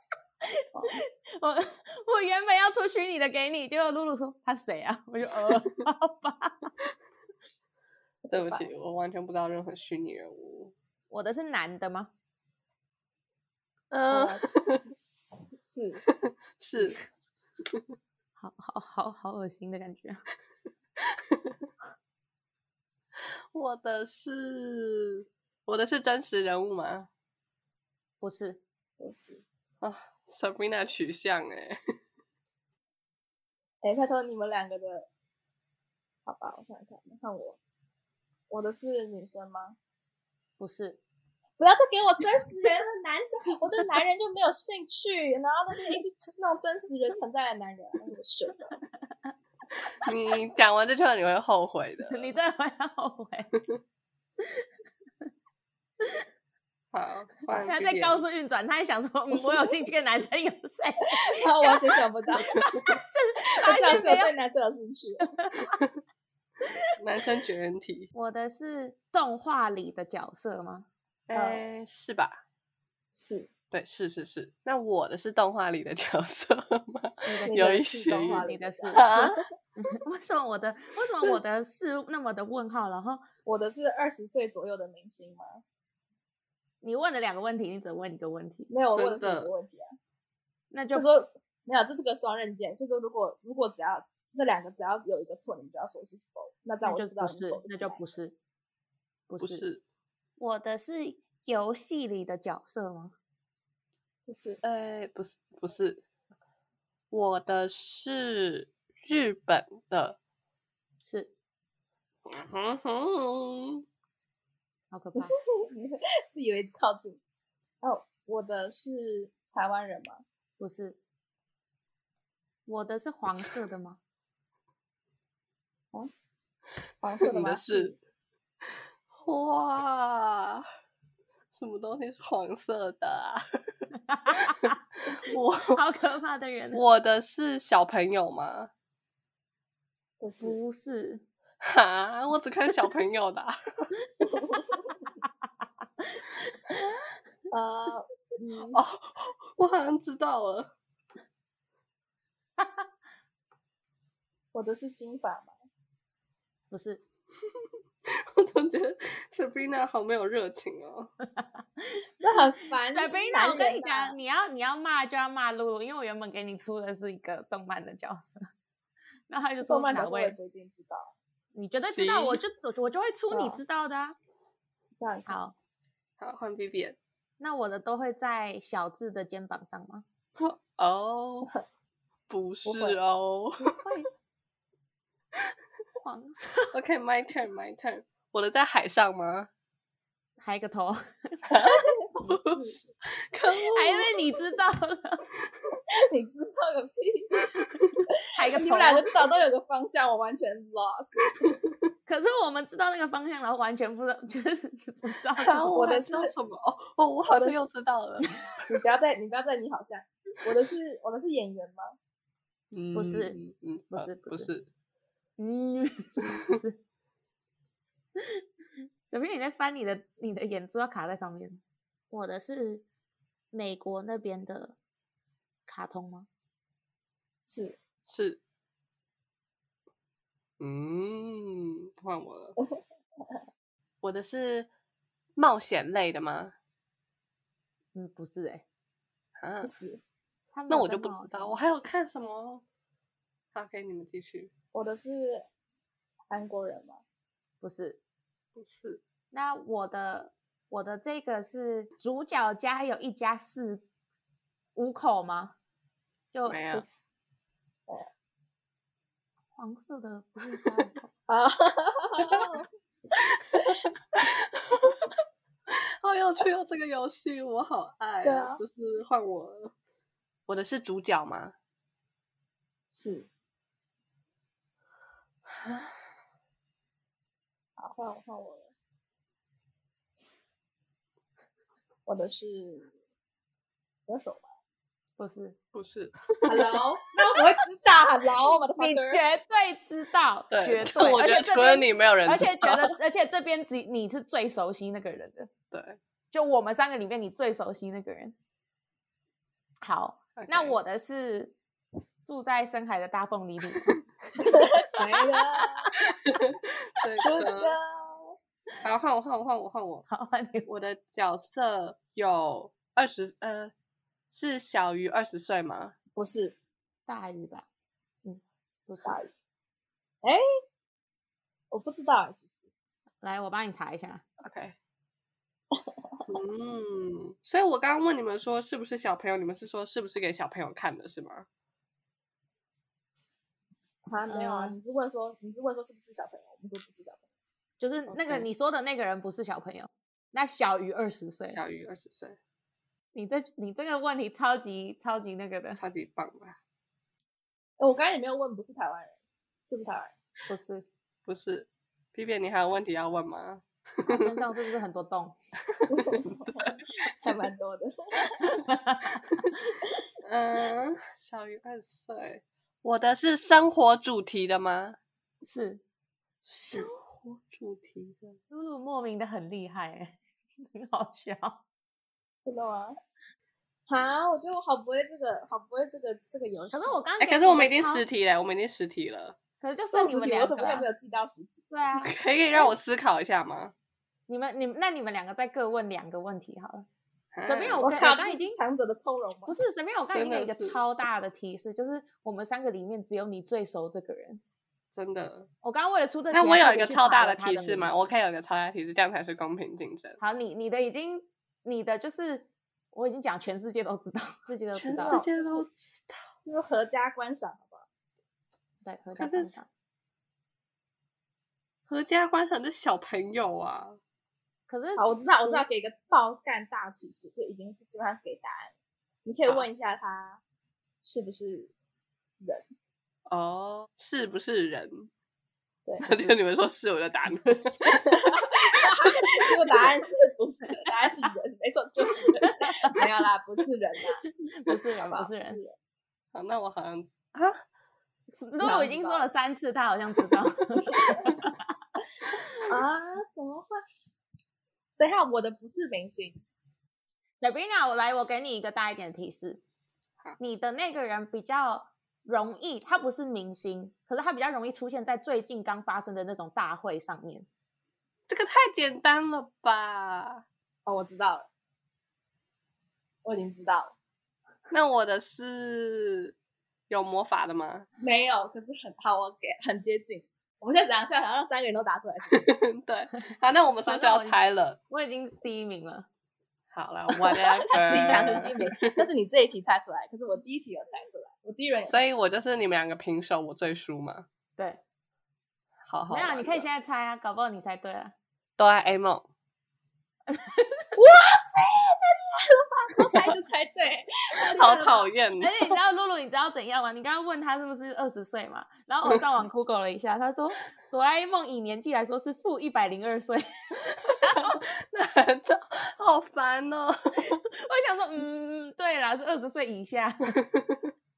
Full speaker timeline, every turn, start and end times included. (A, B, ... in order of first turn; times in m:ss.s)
0:00.5-0:06.7 A
0:00.7-0:01.0 B
0:08.2-0:08.7 B
0:08.3-0:10.7 C
0:11.1-0:12.1 A
0:13.9-0:14.8 C
0:14.1-0:16.0 B
0:16.1-0:17.0 C
0:18.4-0:20.2 A
0:21.1-0:21.6 C
0:23.5-0:27.1 C
0:28.2-0:28.6 A
0:29.0-0:29.4 B
0:29.8-0:31.8 C
0:33.8-0:35.1 B
0:36.3-0:37.6 B
0:38.5-0:39.8 B
0:40.6-0:41.0 A
0:41.6-0:48.8 B
0:50.0-0:52.4 C
0:52.1-0:53.5 A
0:56.9-0:58.2 C
0:57.5-1:04.3 A
0:59.3-0:59.7 B
1:01.1-1:02.6 B
1:03.6-1:05.3 B
1:05.4-1:05.7 A
1:07.0-1:08.1 C
1:08.1-1:10.9 A
1:11.3-1:12.4 C
1:11.3-1:11.6 B
1:13.1-1:13.5 B
1:13.7-1:19.3 C
1:17.3-1:23.2 A
1:17.5-1:19.4 B
1:23.5-1:25.6 B
1:26.8-1:28.7 A
1:28.7-1:30.0 B
1:29.0-1:29.5 C
1:30.7-1:31.0 A
1:30.9-1:38.0 B
1:36.8-1:38.3 A
1:39.3-1:39.6 A
1:39.4-1:39.8 C
1:40.4-1:43.2 A
1:44.3-1:44.6 B
1:44.6-1:46.0 C
1:47.1-1:50.2 C
1:51.0-1:51.3 A
1:52.3-1:53.8 C
1:54.9-1:55.3 A
1:55.2-1:57.2 B
1:57.8-2:00.2 B
2:00.6-2:01.0 A
2:02.7-2:04.0 A
2:07.0-2:08.0 B
2:07.2-2:08.0 C
2:09.2-2:10.7 C
2:11.5-2:13.4 C
2:14.1-2:16.8 A
2:14.3-2:15.8 C
2:16.7-2:18.7 C
2:20.2-2:20.6 B
2:20.4-2:21.2 A
2:21.6-2:23.9 C
2:24.3-2:24.7 B
2:26.0-2:27.2 A
2:27.5-2:28.8 B
2:28.7-2:30.7 C
2:32.6-2:32.8 A
2:34.5-2:35.5 B
2:36.7-2:37.0 A
2:38.3-2:41.1 C
2:41.4-2:42.0 A
2:42.2-2:44.2 B
2:43.0-2:48.4 A
2:49.3-2:50.4 A
2:49.6-2:51.1 B
2:51.5-2:54.2 A
2:51.8-2:52.4 C
2:53.3-2:53.6 B
2:55.0-2:55.4 B
2:55.3-2:55.5 A
2:56.2-2:57.0 C
2:57.4-3:00.0 A
3:00.4-3:01.5 C
3:02.3-3:03.8 C
3:02.6-3:03.0 A
3:03.8-3:04.1 A
3:06.0-3:06.7 A
3:06.7-3:09.5 C
3:10.4-3:11.5 A
3:11.5-3:14.4 C
3:11.6-3:12.8 B
3:13.7-3:15.2 A
3:16.0-3:17.3 B
3:17.7-3:18.0 C
3:18.4-3:19.2 A
3:18.4-3:21.5 B
3:21.4-3:21.7 C
3:22.1-3:26.0 A
3:25.4-3:28.3 C
3:25.8-3:26.3 B
3:27.3-3:27.6 B
3:28.7-3:32.0 B
3:32.7-3:34.7 C
3:32.9-3:33.4 A
3:33.9-3:34.5 A
3:35.4-3:36.8 A
3:36.2-3:36.6 C
3:38.2-3:38.4 A
3:39.1-3:42.8 A
3:43.5-3:44.8 A
3:45.7-3:46.3 A
3:47.4-3:47.8 B
3:48.1-3:48.4 C
3:50.6-3:52.6 C
3:52.6-3:53.4 B
3:54.0-3:54.7 C
3:55.4-3:56.5 C
3:58.0-3:58.6 A
3:59.4-3:59.7 C
3:59.6-4:00.0 B
4:00.5-4:01.6 A
4:00.7-4:02.6 C
4:03.5-4:04.5 C
4:04.7-4:05.4 B
4:06.3-4:07.0 B
4:07.6-4:08.0 A
4:08.6-4:09.0 C
4:09.3-4:13.9 A
4:14.8-4:15.6 A
4:16.3-4:16.8 A
4:16.4-4:16.9 C
4:19.6-4:21.1 A
4:21.3-4:22.7 B
4:24.2-4:25.0 C
4:26.0-4:29.7 C
4:28.2-4:28.6 B
4:30.5-4:31.5 C
4:32.9-4:33.3 B
4:37.8-4:38.7 B
4:42.1-4:42.9 B
4:44.1-4:44.5 B
4:45.2-4:45.6 A
4:45.7-4:46.8 C
4:46.5-4:49.3 B
4:48.8-4:55.5 A
4:50.5-4:52.9 C
4:55.7-4:56.0 C
4:56.3-4:58.4 A
4:59.8-5:01.6 A
5:00.4-5:00.8 C
5:02.3-5:04.5 A
5:03.7-5:04.0 C
5:04.4-5:05.9 B
5:06.0-5:07.8 C
5:07.2-5:08.4 B
5:08.8-5:10.1 C
5:10.1-5:10.7 A
5:10.7-5:13.7 C
5:14.3-5:16.0 C
5:16.2-5:16.6 B
5:17.1-5:17.7 A
5:18.2-5:19.2 A
5:19.0-5:19.3 B
5:21.7-5:22.6 B
5:23.2-5:24.2 A
5:24.4-5:24.8 C
5:25.7-5:26.2 B
5:26.3-5:31.5 C
5:34.1-5:37.2 B
5:34.3-5:34.7 A
5:37.8-5:41.6 A
5:38.1-5:38.5 C
5:41.5-5:42.4 C
5:43.1-5:45.8 A
5:45.7-5:46.6 C
5:47.8-5:50.1 B
5:50.5-5:50.8 A
5:51.3-5:54.4 C
5:54.1-5:55.4 A
5:55.7-5:57.1 C
5:55.9-5:58.4 B
5:58.5-5:59.8 A
6:00.2-6:05.0 C
6:05.4-6:05.8 A
6:06.4-6:08.4 C
6:08.5-6:10.2 A
6:10.7-6:11.6 A
6:12.4-6:13.0 B
6:13.9-6:17.0 B
6:16.7-6:18.0 A
6:17.2-6:19.4 C
6:19.6-6:20.9 A
6:19.9-6:21.7 B
6:21.7-6:22.6 A
6:22.0-6:23.7 C
6:24.3-6:26.9 A
6:27.3-6:27.9 C
6:27.4-6:28.6 A
6:27.8-6:29.6 B
6:29.5-6:34.4 A
6:30.1-6:30.8 C
6:35.0-6:35.5 C
6:35.6-6:37.9 A
6:36.3-6:40.2 C
6:40.2-6:45.2 A
6:44.7-6:46.2 C
6:45.0-6:45.7 B
6:46.4-6:47.9 B
6:48.8-6:49.7 A
6:49.2-6:49.5 C
6:51.9-6:54.0 C
6:54.7-6:55.6 A
6:55.0-6:58.7 B
6:59.2-7:00.4 B
7:01.0-7:01.7 B
7:02.4-7:02.7 B
7:03.3-7:05.1 C
7:05.9-7:06.3 B
7:06.0-7:08.0 C
7:07.9-7:15.8 B
7:12.2-7:13.0 A
7:14.6-7:15.6 A
7:16.3-7:17.6 C
7:18.3-7:21.6 A
7:18.6-7:19.3 B
7:20.9-7:21.4 B
7:22.7-7:23.8 B
7:25.0-7:26.4 B
7:27.4-7:29.6 A
7:30.4-7:37.5 A
7:38.3-7:40.4 C
7:40.9-7:41.5 B
7:43.2-7:44.0 B
7:44.7-7:46.4 C
7:46.9-7:47.9 C
7:48.0-7:52.6 B
7:52.3-7:54.8 C
7:53.8-7:56.1 A
7:56.7-7:59.0 C
7:57.4-8:02.0 B
8:01.8-8:04.3 C
8:05.9-8:06.7 C
8:06.1-8:08.1 A
8:08.6-8:09.3 C
8:10.3-8:10.9 A
8:11.0-8:15.1 B
8:14.5-8:15.7 C
8:15.4-8:24.6 A
8:23.9-8:27.4 C
8:27.5-8:30.4 A
8:30.3-8:30.9 C